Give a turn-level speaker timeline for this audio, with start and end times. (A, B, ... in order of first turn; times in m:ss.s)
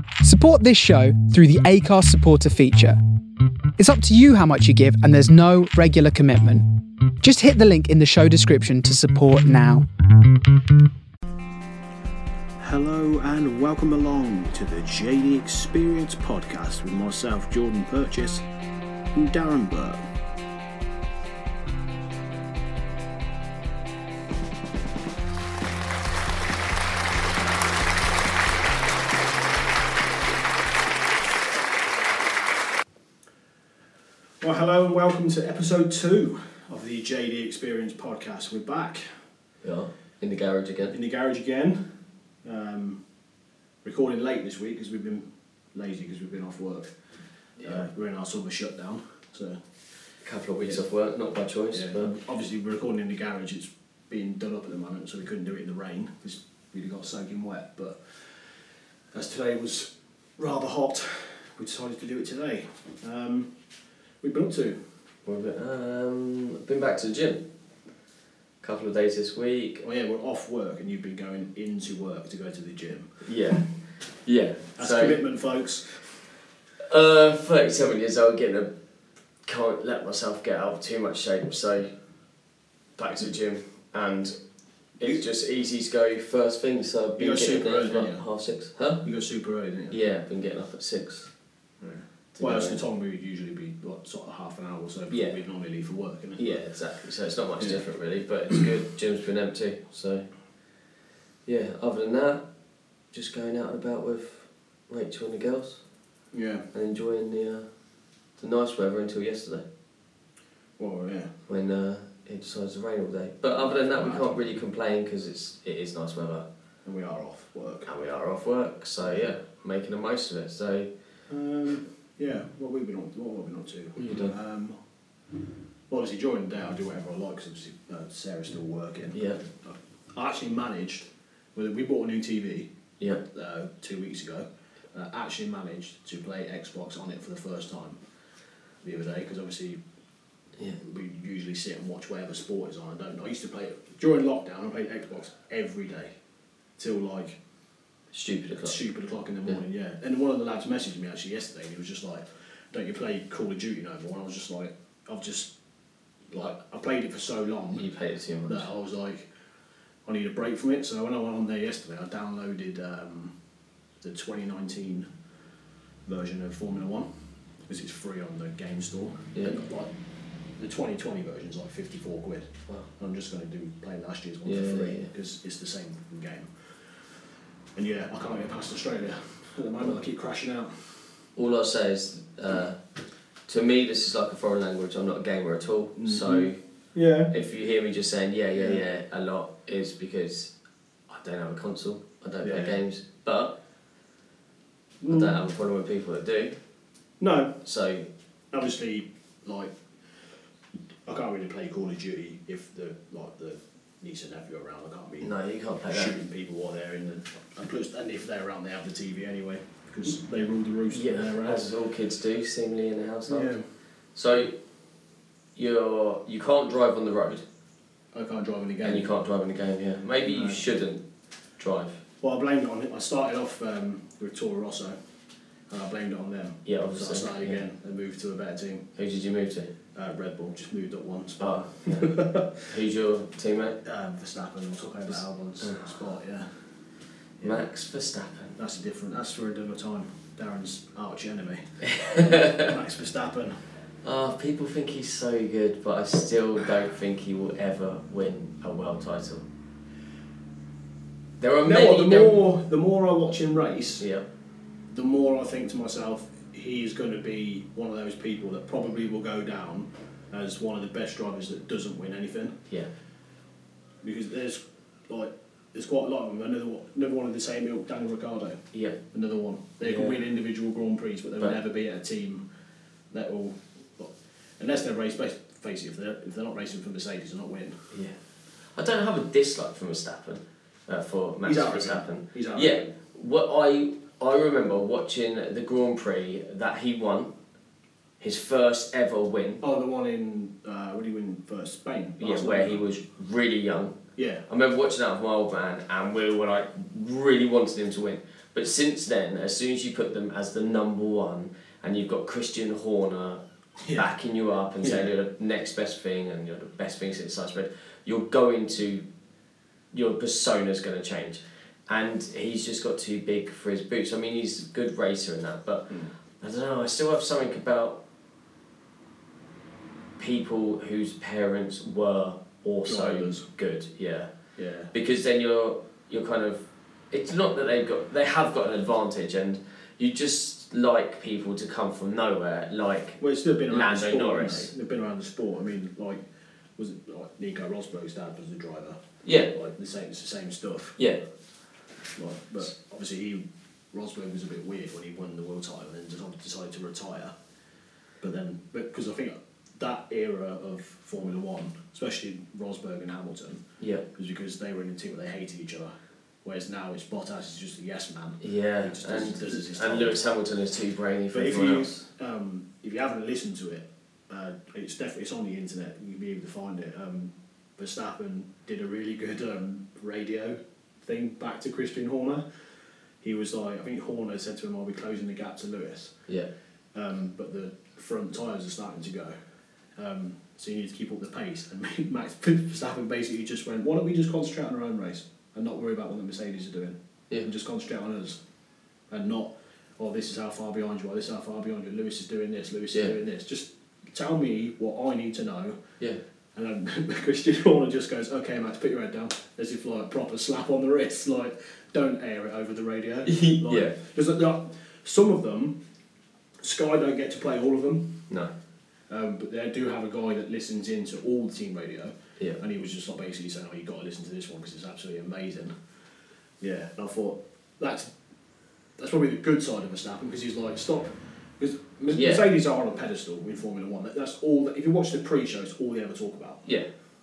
0:00.2-0:03.0 A
0:03.8-0:06.6 A
0:07.2-0:09.9 A
0:12.6-0:18.4 B
0:19.1-0:20.1 B
0:34.4-0:39.2 B
0:39.6-0:40.9 C
0:40.9-0:41.9 B
0:42.4-0:43.0 B
0:43.8-0:46.9 B
0:47.6-0:49.6 B
0:50.2-0:52.1 C
0:51.7-0:58.5 B
0:59.1-1:03.6 B
1:04.2-1:04.9 B
1:05.2-1:07.4 C
1:08.6-1:09.8 C
1:09.8-1:13.6 B
1:13.2-1:13.7 C
1:14.2-1:15.2 C
1:14.8-1:16.2 B
1:16.8-1:18.7 C
1:19.4-1:21.9 C
1:23.0-1:24.4 C
1:25.0-1:29.0 C
1:27.2-1:28.2 B
1:29.0-1:30.0 B
1:29.9-1:31.3 C
1:31.8-1:36.6 B
1:32.3-1:32.8 C
1:35.1-1:35.4 C
1:36.4-1:40.2 C
1:41.4-1:42.4 C
1:43.1-1:45.8 C
1:46.3-1:46.7 B
1:46.7-1:47.7 C
1:48.4-1:49.6 C
1:50.8-1:51.3 B
1:51.5-1:56.4 C
1:53.6-1:54.4 B
1:56.8-1:57.9 B
1:57.8-2:00.9 C
2:01.3-2:04.8 B
2:04.0-2:04.3 C
2:05.9-2:12.7 B
2:09.1-2:09.4 C
2:13.2-2:18.0 B
2:18.8-2:19.8 B
2:20.8-2:26.1 B
2:26.8-2:27.4 B
2:28.1-2:28.8 C
2:28.6-2:35.5 B
2:36.3-2:37.9 B
2:37.8-2:38.7 C
2:38.4-2:39.3 B
2:40.0-2:43.3 B
2:44.0-2:45.1 B
2:46.0-2:47.1 B
2:47.7-2:49.9 B
2:50.6-2:56.5 B
2:54.4-2:55.1 C
2:57.8-3:01.0 B
3:01.4-3:02.8 C
3:03.5-3:06.6 C
3:06.0-3:07.3 B
3:07.3-3:10.5 C
3:08.5-3:08.8 B
3:11.1-3:13.6 C
3:12.4-3:12.8 B
3:15.0-3:15.4 B
3:15.1-3:16.6 C
3:17.2-3:17.6 B
3:17.6-3:18.1 C
3:18.5-3:19.7 B
3:21.0-3:25.3 B
3:25.2-3:26.2 C
3:25.9-3:31.7 B
3:30.9-3:33.5 C
3:33.3-3:33.6 B
3:34.1-3:34.5 C
3:35.6-3:37.4 C
3:38.1-3:39.1 B
3:38.8-3:41.0 C
3:40.2-3:40.6 B
3:41.6-3:42.0 C
3:42.2-3:45.0 B
3:45.7-3:48.9 B
3:46.6-3:47.6 C
3:49.0-3:49.7 C
3:49.9-3:52.7 B
3:51.4-3:52.1 C
3:52.7-3:53.8 C
3:53.8-3:56.6 B
3:55.6-3:55.9 C
3:57.4-3:58.5 C
3:58.6-4:03.6 B
4:01.8-4:02.7 C
4:04.0-4:09.5 C
4:11.4-4:12.4 C
4:11.6-4:14.0 B
4:14.0-4:14.2 C
4:14.9-4:22.6 B
4:24.0-4:32.4 B
4:28.7-4:29.0 C
4:29.8-4:30.2 C
4:33.1-4:37.9 B
4:37.9-4:38.2 C
4:38.7-4:47.3 C
4:41.4-4:42.9 B
4:48.2-4:49.6 C
4:49.6-4:52.8 B
4:52.2-5:03.4 C
4:54.2-4:54.4 B
5:03.8-5:04.1 B
5:03.9-5:09.0 C
5:04.8-5:05.1 B
5:09.9-5:18.0 C
5:20.2-5:24.3 C
5:22.8-5:23.5 B
5:24.6-5:24.9 B
5:24.9-5:34.7 C
5:33.2-5:36.2 B
5:36.8-5:41.0 B
5:39.2-5:39.5 C
5:42.1-5:47.3 B
5:48.2-5:53.6 B
5:53.8-5:54.0 C
5:54.1-5:55.9 B
5:56.4-6:00.2 B
5:58.4-6:02.0 C
6:01.3-6:12.4 B
6:13.2-6:16.1 B
6:16.9-6:19.3 B
6:20.0-6:28.4 B
6:29.1-6:35.8 B
6:36.5-6:45.8 B
6:43.2-6:44.0 C
6:46.6-6:48.3 B
6:49.1-6:55.7 B
6:56.6-6:58.1 B
6:59.0-7:06.6 B
7:02.1-7:02.4 C
7:06.6-7:06.9 C